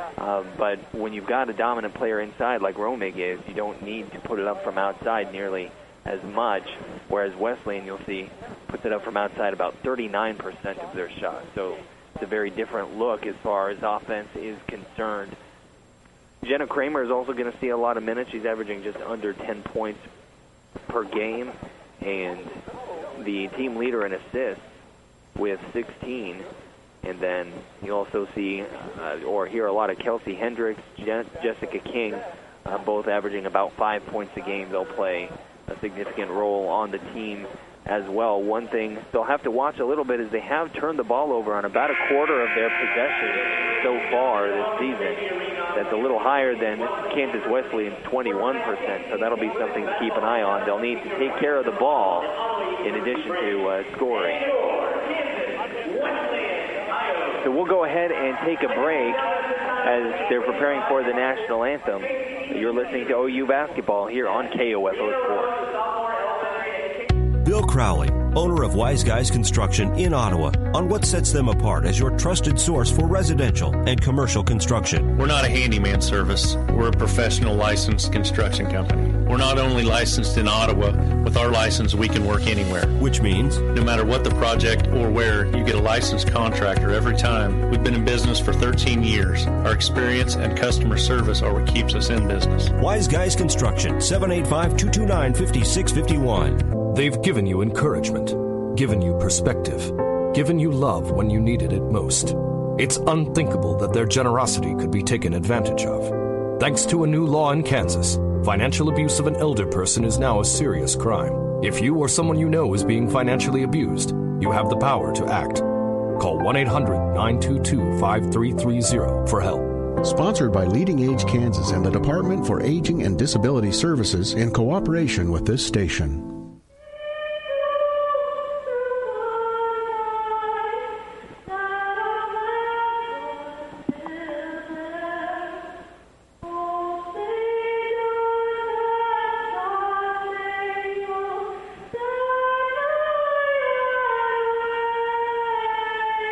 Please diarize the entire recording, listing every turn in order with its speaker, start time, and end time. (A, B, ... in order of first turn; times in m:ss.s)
0:00.2-0:15.4 A
0:16.4-0:20.1 A
0:20.9-0:22.6 A
0:23.2-0:24.8 A
0:25.4-0:26.5 A
0:27.0-0:54.4 A
0:57.4-0:59.3 A
0:59.8-1:05.6 A
1:07.4-1:15.1 B
1:15.1-1:23.0 C
1:23.0-1:23.6 B
1:23.7-1:32.7 C
1:32.8-1:36.6 B
1:36.8-1:59.8 D
2:00.0-2:06.4 E